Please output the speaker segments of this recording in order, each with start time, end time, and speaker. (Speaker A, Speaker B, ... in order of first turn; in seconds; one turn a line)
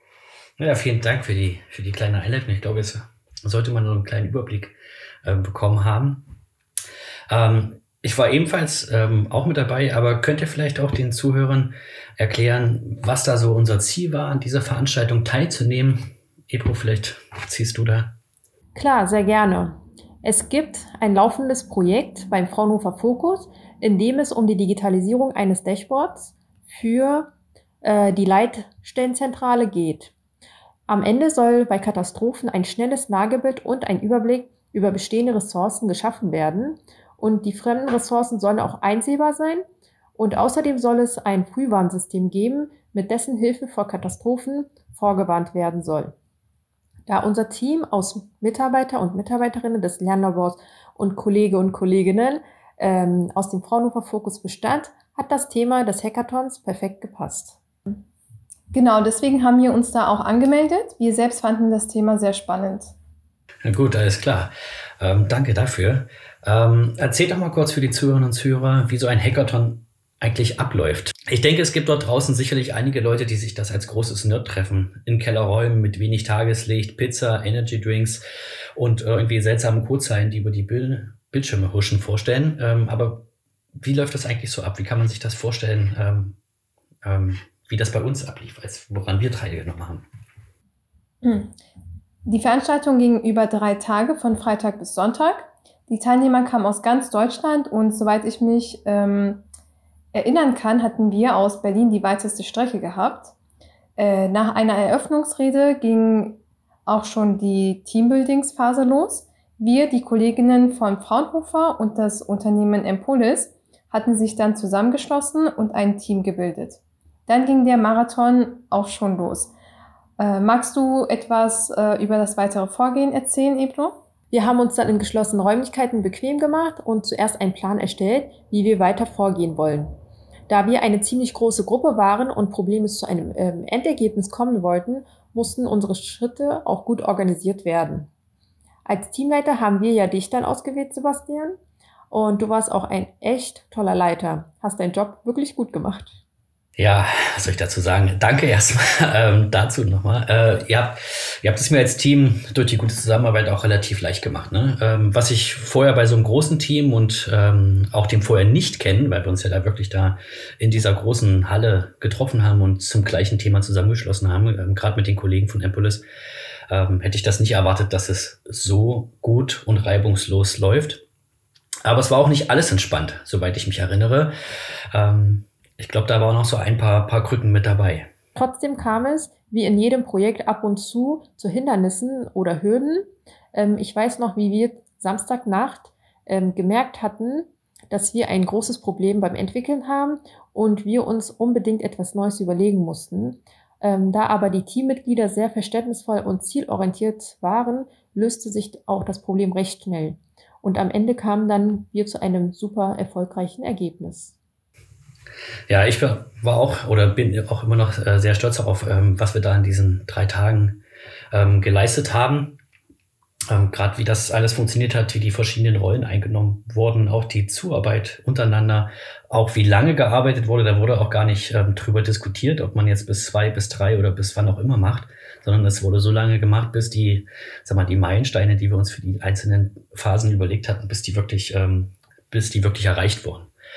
Speaker A: 0.6-6.2
Speaker A: 7.3-18.1
Speaker B: 18.7-27.3
Speaker B: 27.8-30.1
Speaker B: 30.9-39.6
Speaker B: 40.1-46.1
Speaker B: 47.1-57.6
Speaker C: 58.7-62.9
Speaker A: 63.6-78.2
Speaker A: 78.7-83.3
Speaker A: 83.8-86.4
Speaker A: 87.0-90.0
Speaker C: 91.2-91.6
Speaker C: 92.2-99.4
Speaker C: 100.1-103.3
Speaker C: 104.0-119.5
Speaker C: 120.2-124.0
Speaker B: 124.3-129.9
Speaker B: 130.5-138.1
Speaker B: 138.8-141.6
Speaker B: 142.1-146.2
Speaker A: 146.8-166.0
Speaker A: 166.7-171.0
Speaker A: 171.8-174.3
Speaker A: 174.9-178.1
Speaker B: 178.3-204.3
Speaker A: 205.7-210.8
Speaker A: 211.3-212.6
Speaker A: 213.5-233.5